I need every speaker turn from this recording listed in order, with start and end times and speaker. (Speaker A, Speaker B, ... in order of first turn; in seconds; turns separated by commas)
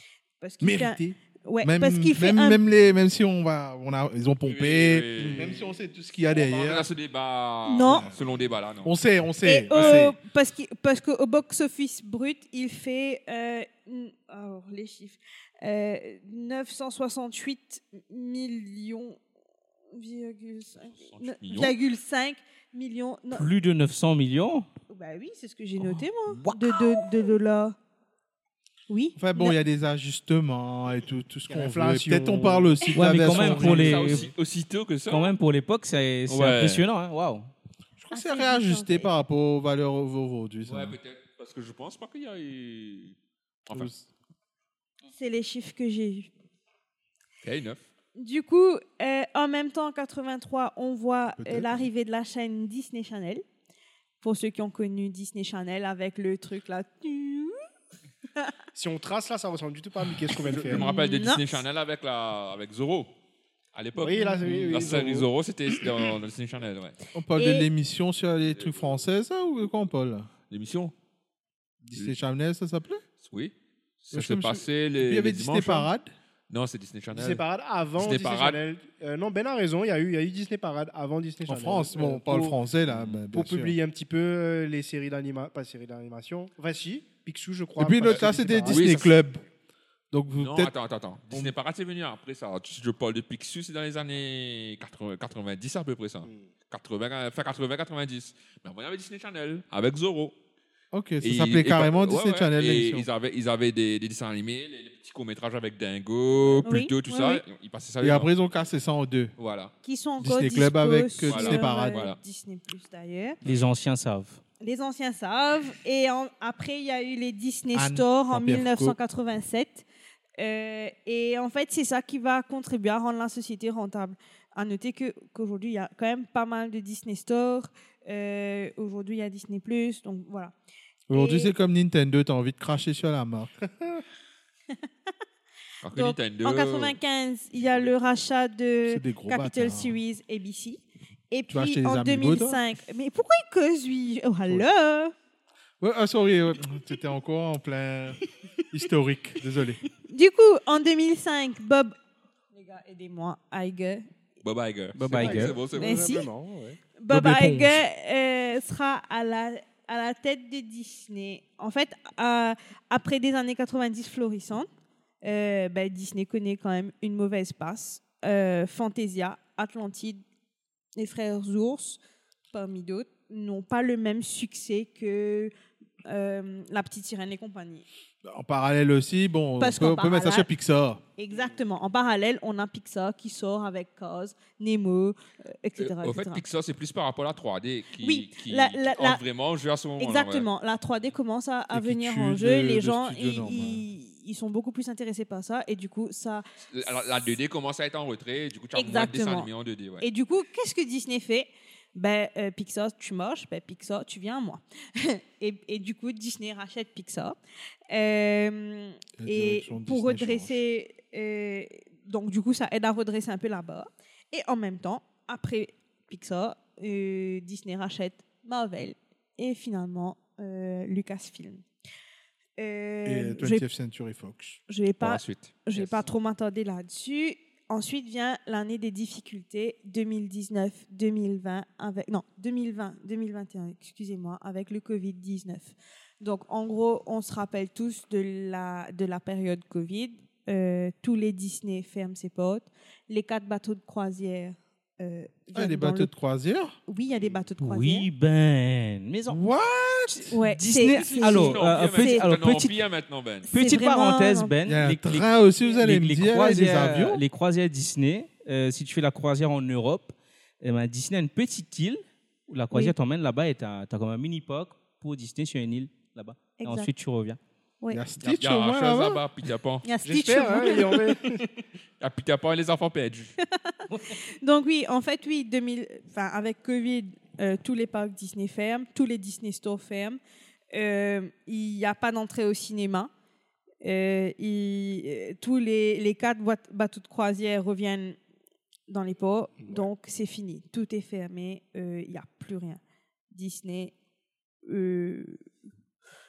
Speaker A: 0.4-2.6, Speaker B: 0.6-6.9, Speaker C: 4.5-5.6, Speaker D: 5.2-5.6, Speaker C: 6.3-8.9, Speaker A: 7.7-8.1, Speaker B: 7.8-8.1, Speaker B: 8.8-10.2, Speaker A: 9.4-19.2, Speaker C: 9.7-10.1, Speaker A: 19.9-23.5, Speaker C: 21.0-21.8, Speaker E: 23.3-24.7, Speaker A: 24.9-27.8, Speaker A: 28.9-29.6, Speaker B: 29.2-34.2, Speaker D: 31.5-32.9, Speaker E: 32.9-34.3, Speaker C: 33.3-35.3, Speaker E: 35.1-37.5, Speaker C: 36.3-36.8, Speaker B: 38.0-41.0, Speaker A: 38.1-39.1, Speaker C: 40.6-43.1, Speaker B: 43.7-44.1, Speaker A: 45.1-46.3, Speaker C: 47.4-47.9, Speaker A: 48.1-53.4, Speaker B: 51.3-51.9, Speaker A: 54.2-57.6, Speaker D: 58.7-60.9, Speaker C: 60.4-63.1, Speaker A: 60.7-61.6, Speaker C: 63.7-67.0, Speaker D: 64.0-65.3, Speaker B: 64.4-64.8, Speaker B: 67.1-70.3, Speaker A: 67.3-67.7, Speaker C: 70.5-70.9, Speaker B: 71.8-73.0, Speaker C: 73.2-75.9, Speaker B: 74.1-76.1, Speaker C: 76.5-77.4, Speaker D: 77.1-89.0, Speaker C: 78.0-78.6, Speaker B: 81.5-83.7, Speaker B: 87.8-89.4, Speaker C: 88.0-89.1, Speaker B: 90.1-90.7, Speaker C: 90.3-100.3, Speaker B: 100.9-103.1, Speaker C: 101.2-108.3, Speaker A: 106.6-107.4, Speaker B: 108.0-109.3, Speaker C: 109.4-109.7, Speaker A: 109.8-113.4, Speaker B: 110.2-112.0, Speaker C: 111.2-112.2, Speaker E: 113.4-114.4, Speaker A: 114.6-119.8, Speaker B: 117.7-119.0, Speaker A: 120.4-130.5, Speaker B: 131.1-133.5, Speaker A: 131.1-131.5, Speaker C: 135.8-137.0, Speaker A: 135.9-145.1, Speaker B: 138.8-139.9, Speaker B: 141.5-142.6, Speaker B: 145.8-148.2, Speaker B: 148.7-149.8, Speaker A: 150.1-151.9, Speaker A: 152.5-154.0, Speaker C: 154.4-156.2, Speaker E: 155.0-155.6, Speaker D: 155.1-156.8, Speaker A: 155.7-156.3, Speaker A: 156.9-164.7, Speaker B: 157.1-157.8, Speaker A: 165.2-170.2, Speaker A: 170.9-175.5, Speaker A: 176.0-177.8, Speaker B: 178.2-181.0, Speaker A: 179.6-180.5, Speaker A: 181.2-186.4, Speaker C: 185.8-190.5, Speaker A: 188.0-189.2, Speaker A: 190.0-197.3, Speaker B: 191.7-193.8, Speaker C: 196.7-200.1, Speaker A: 198.7-199.5, Speaker A: 200.0-207.4, Speaker A: 207.9-221.6, Speaker B: 209.2-210.6, Speaker A: 222.6-223.6, Speaker B: 223.0-224.6, Speaker A: 224.7-246.1, Speaker C: 225.0-226.0, Speaker B: 245.5-246.8, Speaker A: 246.8-248.1, Speaker E: 247.6-249.4, Speaker B: 249.3-250.3, Speaker E: 250.1-252.8, Speaker A: 250.3-252.3, Speaker C: 250.9-253.5, Speaker A: 253.5-254.5, Speaker E: 253.5-267.4, Speaker B: 254.6-257.2, Speaker A: 266.6-266.9, Speaker B: 267.9-269.2, Speaker C: 268.2-269.9, Speaker A: 269.8-271.2, Speaker D: 270.0-271.4, Speaker C: 272.0-273.3, Speaker A: 273.6-280.2, Speaker A: 280.7-283.1, Speaker A: 283.8-288.2, Speaker A: 288.9-293.9, Speaker A: 294.6-295.4